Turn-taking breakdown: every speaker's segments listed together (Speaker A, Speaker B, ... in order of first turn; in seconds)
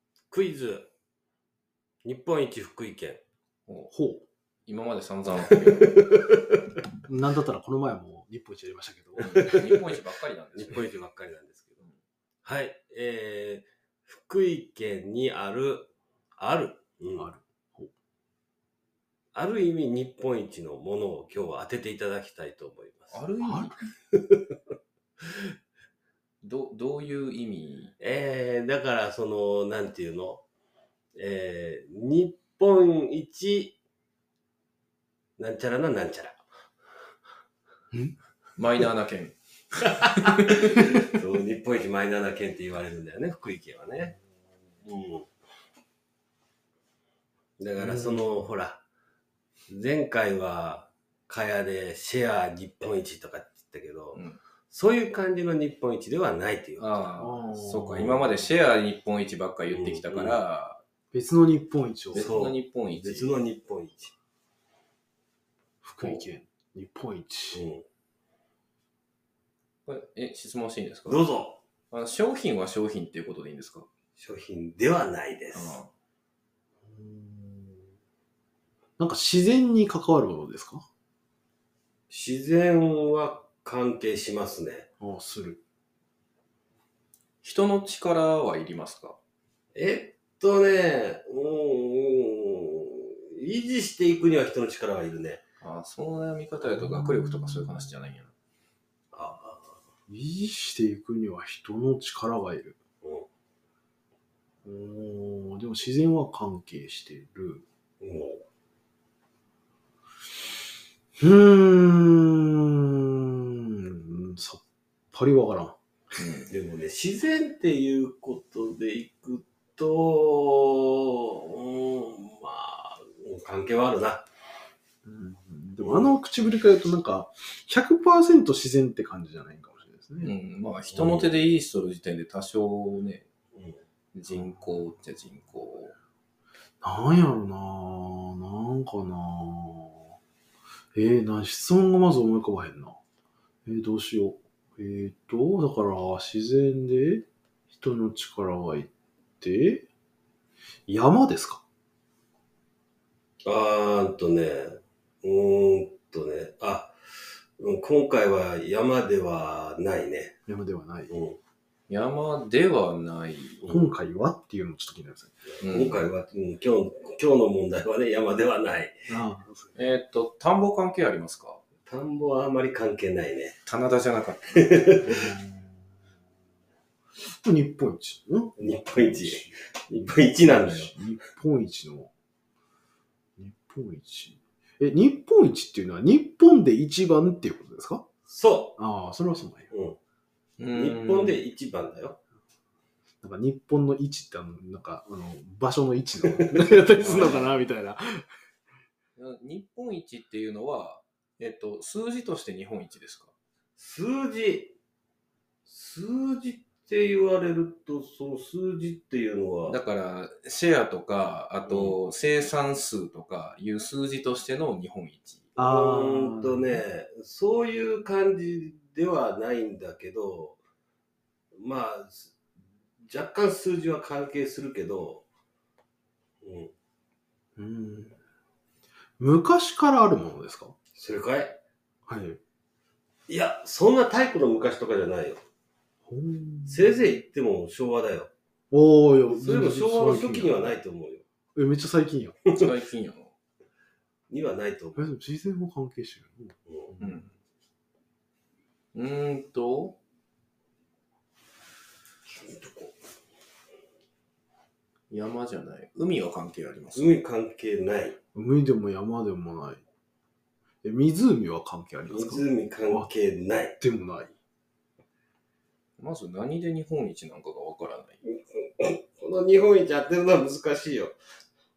Speaker A: 0.3-0.9, 2.0-3.2, 5.6-6.3, 9.2-9.8, 10.5-11.8, 12.4-17.3, 19.3-23.2, 24.1-24.5, 28.0-30.4, 31.1-33.8, 35.4-36.4, 40.4-44.1, 44.8-45.3, 47.6-48.8, 49.7-57.3, 58.0-58.5, 59.7-60.4, 62.1-64.1, 67.5-67.8, 71.1-71.6, 74.2-75.8, 82.1-84.9, 89.7-95.4, 99.1-99.8, 103.0-103.3, 108.0-108.4, 116.5-124.2, 125.8-126.2, 130.9-131.3, 153.4-156.9, 157.6-160.3, 161.1-161.4, 165.5-168.9, 171.9-173.6, 174.6-175.2, 178.6-180.9, 188.3-188.8, 189.7-190.0, 190.7-192.2, 196.2-197.3, 203.8-204.7, 205.7-209.8, 211.6-212.0, 215.6-220.6, 221.5-222.3, 223.1-225.2, 226.4-226.7, 230.9-231.6, 233.3-235.4, 236.7-238.3, 239.3-241.2, 244.3-245.1, 246.7-246.9, 252.3-252.9, 256.9-258.2, 262.1-263.8, 268.2-271.1
Speaker B: 3.9-4.2, 7.1-9.8, 17.2-17.9, 23.4-23.7, 47.8-48.4, 57.2-58.3, 61.1-62.3, 65.8-67.6, 76.8-77.9, 79.0-80.9, 85.0-85.6, 96.6-98.0, 100.1-102.8, 104.6-107.6, 111.2-115.8, 125.0-130.3, 136.8-140.1, 140.9-143.0, 143.7-149.8, 150.9-151.6, 160.5-161.1, 163.7-165.4, 169.1-169.7, 175.0-175.8, 177.2-182.1, 183.4-188.0, 188.8-189.7, 193.2-198.2, 215.6-216.8, 227.6-228.2, 229.2-230.7, 232.1-232.4, 236.1-237.0, 238.7-240.8, 241.5-242.4, 244.9-247.2, 258.3-259.8, 260.8-263.1, 263.8-264.3
Speaker C: 4.7-6.0, 9.2-10.9, 23.1-23.9, 26.4-27.9, 38.6-40.9, 54.1-54.4, 56.8-60.8, 62.1-63.3, 66.0-66.2, 69.8-71.2, 71.9-73.9, 75.5-75.9, 87.4-89.2, 95.6-98.3, 116.2-116.5, 130.2-133.2, 134.1-135.9, 161.9-163.6, 165.6-166.0, 169.7-171.6, 173.7-174.6, 190.6-191.4, 197.0-197.5, 199.2-203.3, 209.7-215.5, 242.5-243.3, 247.0-247.3, 248.9-250.0, 255.1-257.1, 266.0-268.2